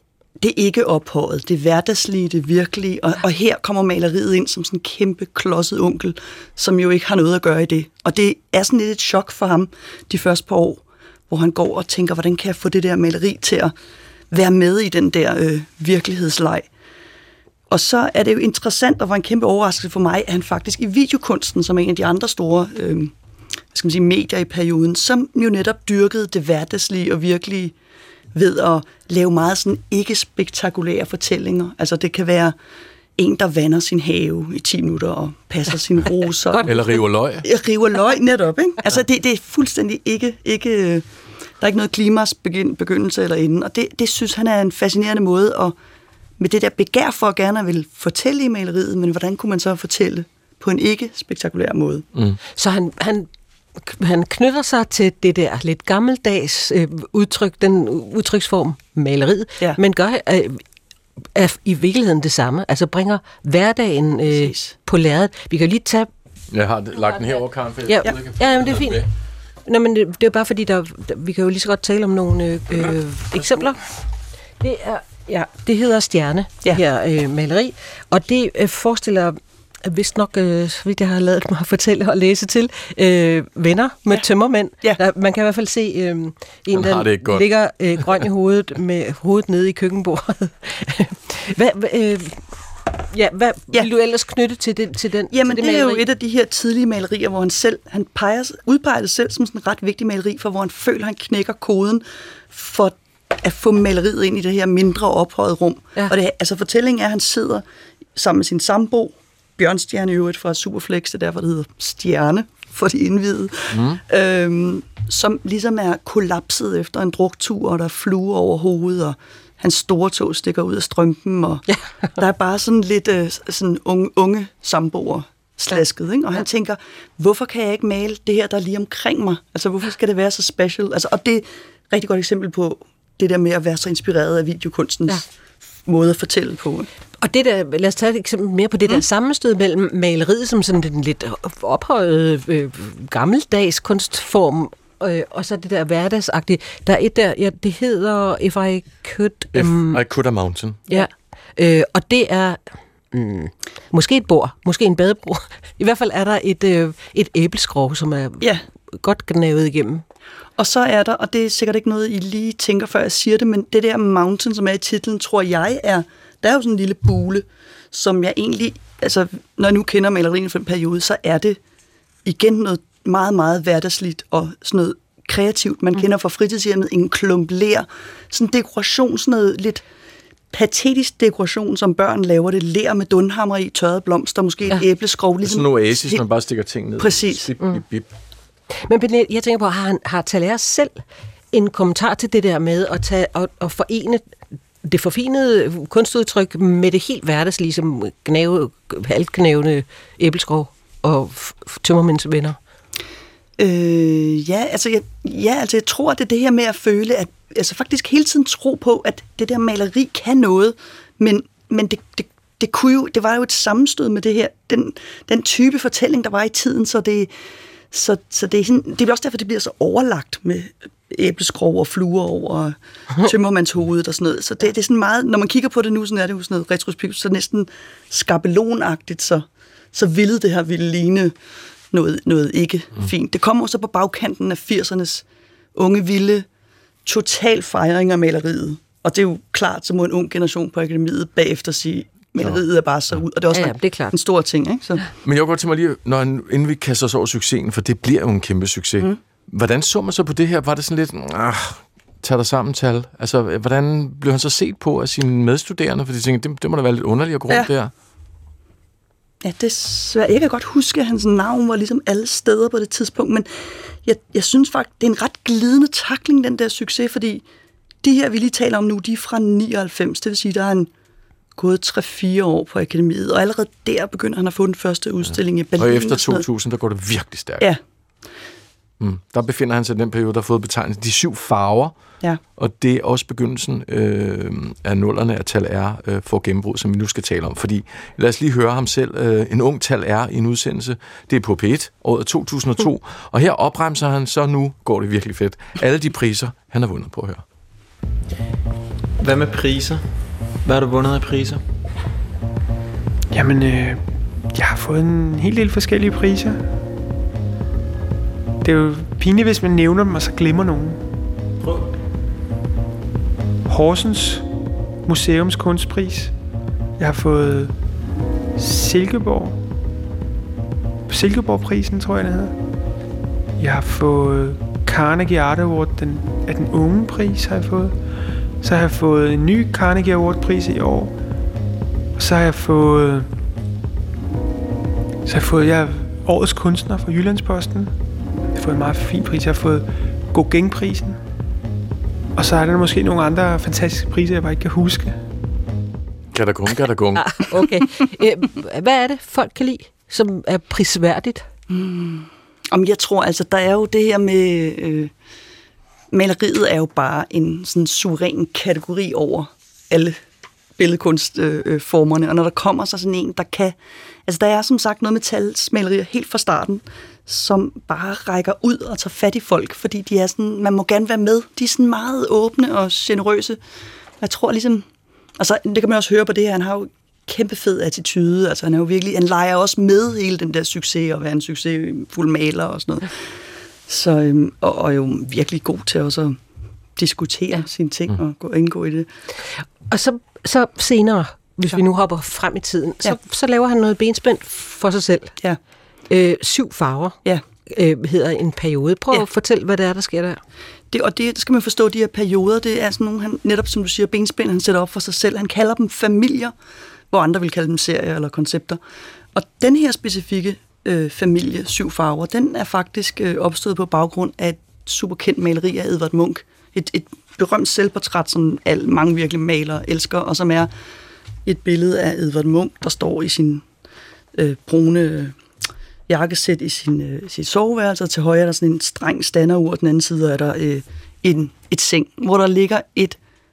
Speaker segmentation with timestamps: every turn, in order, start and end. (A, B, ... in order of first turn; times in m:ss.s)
0:00.4-0:13.7 A
0:14.3-0:16.7 A
0:17.7-0:23.1 A
0:23.7-0:27.7 A
0:28.3-0:32.6 A
0:33.2-0:36.9 A
0:36.5-0:36.8 B
0:36.6-0:37.4 C
0:37.4-0:41.0 A
0:41.6-0:45.8 A
0:46.4-0:52.0 A
0:52.5-1:00.6 B
1:01.3-1:06.1 B
1:04.3-1:04.7 A
1:06.5-1:09.1 C
1:07.0-1:09.0 B
1:09.6-1:13.8 B
1:14.6-1:32.4 B
1:26.7-1:27.5 C
1:33.1-1:36.0 B
1:35.3-1:47.6 A
1:48.2-2:15.3 A
1:53.7-1:54.0 C
2:01.7-2:02.1 B
2:15.8-2:16.9 A
2:17.2-2:30.0 B
2:29.5-2:30.8 C
2:30.9-2:40.0 B
2:40.6-2:51.6 A
2:52.2-2:59.8 A
3:00.5-3:06.2 A
3:05.4-3:08.1 C
3:07.0-3:07.5 A
3:07.6-3:07.8 B
3:08.8-3:22.6 B
3:23.6-3:37.3 A
3:37.9-3:51.3 A
3:51.9-3:56.4 A
3:57.0-4:05.0 A
4:02.4-4:03.2 C
4:03.5-4:04.2 B
4:05.2-4:17.9 C
4:19.4-4:23.5 A
4:24.0-4:27.4 A
4:28.0-4:30.9 A
4:31.6-4:36.4 A
4:35.2-4:37.7 C
4:39.0-4:41.9 C
4:42.4-4:57.4 C
4:59.2-5:00.1 D
5:00.6-5:01.6 D
5:03.3-5:06.7 E
5:08.6-5:11.0 E
5:13.7-5:14.5 E
5:15.0-5:16.3 E
5:17.0-5:17.7 E
5:18.6-5:19.6 E
5:21.1-5:22.5 E
5:23.6-5:28.0 E
5:28.6-5:31.2 E
5:32.2-5:33.3 E
5:35.2-5:37.9 E
5:38.5-5:41.2 E
5:42.4-5:45.2 E
5:46.3-5:47.4 C
5:47.1-5:51.4 B
5:51.7-5:55.1 A
5:56.1-6:00.2 A
6:00.8-6:03.8 A
6:04.3-6:13.6 A
6:14.2-6:14.8 A
6:15.4-6:23.1 A
6:23.9-6:26.4 A
6:27.0-6:29.1 A
6:29.6-6:35.4 B
6:36.1-6:40.4 B
6:40.9-6:46.5 A
6:47.1-6:48.8 A
6:49.3-7:00.7 A
7:01.4-7:03.6 A
7:04.4-7:05.4 A
7:06.1-7:13.2 A